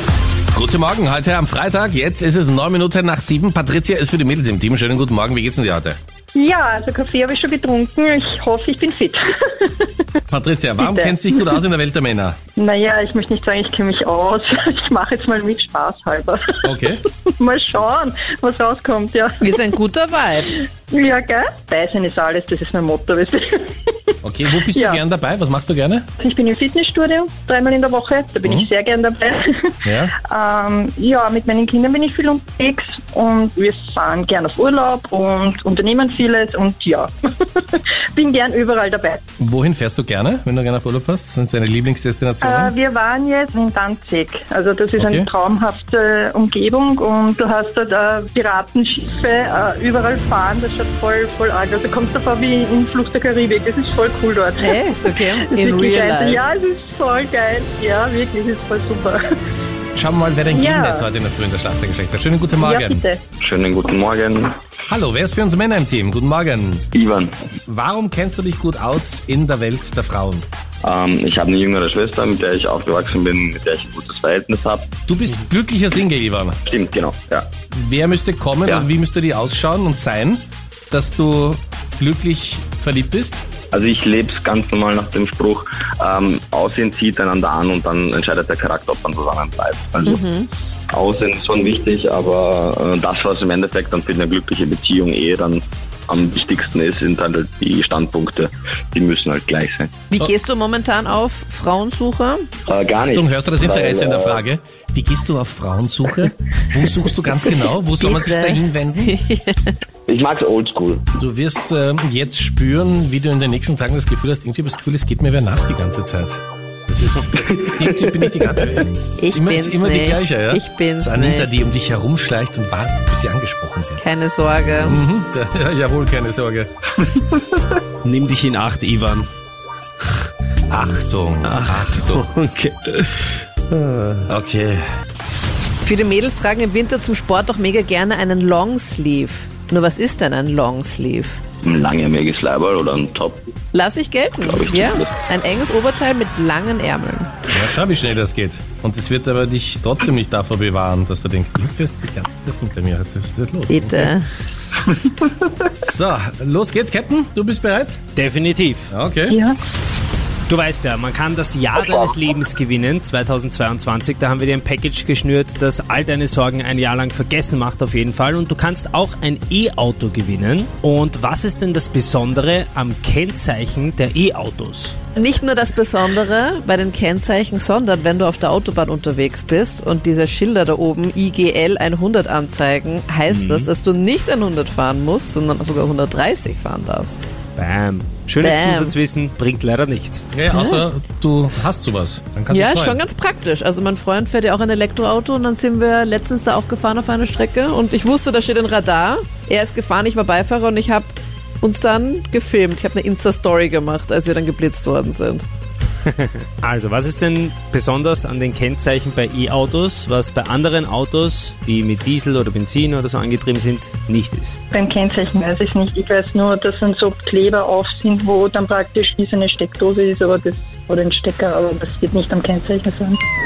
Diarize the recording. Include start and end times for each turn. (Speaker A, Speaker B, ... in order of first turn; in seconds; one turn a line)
Speaker A: 0.5-6.0
Speaker B: 6.3-10.1
Speaker A: 10.3-12.4
Speaker B: 10.8-11.5
Speaker B: 12.6-16.7
Speaker A: 16.6-17.0
Speaker B: 17.4-19.6
Speaker C: 19.4-20.6
Speaker B: 20.9-23.9
Speaker A: 24.2-26.1
Speaker B: 24.7-25.0
Speaker B: 26.2-39.2
Speaker A: 28.4-28.7
Speaker A: 29.9-30.1
Speaker A: 39.4-42.8
Speaker B: 42.4-59.2
Speaker A: 45.0-45.3
Speaker C: 54.6-56.4
Speaker A: 60.0-63.0
Speaker B: 60.5-61.1
Speaker B: 62.6-63.2
Speaker D: 63.4-64.5
Speaker A: 64.9-66.9
Speaker D: 66.9-67.4
Speaker A: 67.7-70.5
Speaker D: 70.8-74.9
Speaker A: 75.1-76.6
Speaker D: 76.7-77.5
Speaker A: 77.7-83.4
Speaker D: 83.7-90.2
Speaker C: 90.1-90.5
Speaker D: 90.9-100.0
Speaker C: 100.1-102.5
Speaker D: 102.7-104.5
Speaker A: 103.0-109.2
Speaker C: 108.0-109.7
Speaker D: 110.1-111.1
Speaker A: 111.2-124.0
Speaker D: 117.4-118.2
Speaker C: 119.2-121.5
Speaker C: 124.0-125.0
Speaker A: 124.8-126.7
Speaker E: 128.0-129.3
Speaker A: 130.7-132.3
Speaker E: 131.5-134.2
Speaker A: 134.3-134.8
Speaker C: 135.8-141.4
Speaker D: 141.6-143.5
Speaker C: 143.7-147.3
Speaker D: 144.4-145.1
Speaker A: 147.5-154.1
Speaker C: 153.7-154.3
Speaker A: 155.7-158.0
Speaker E: 158.2-158.9
Speaker A: 158.9-159.4
Speaker B: 159.3-159.6
Speaker E: 160.5-175.0
Speaker C: 175.2-187.2
Speaker E: 183.3-183.7
Speaker E: 187.6-190.3
Speaker C: 188.4-188.9
Speaker A: 190.3-193.0
Speaker C: 190.5-190.9
Speaker C: 192.5-205.4
Speaker E: 206.6-214.6
Speaker B: 214.7-223.2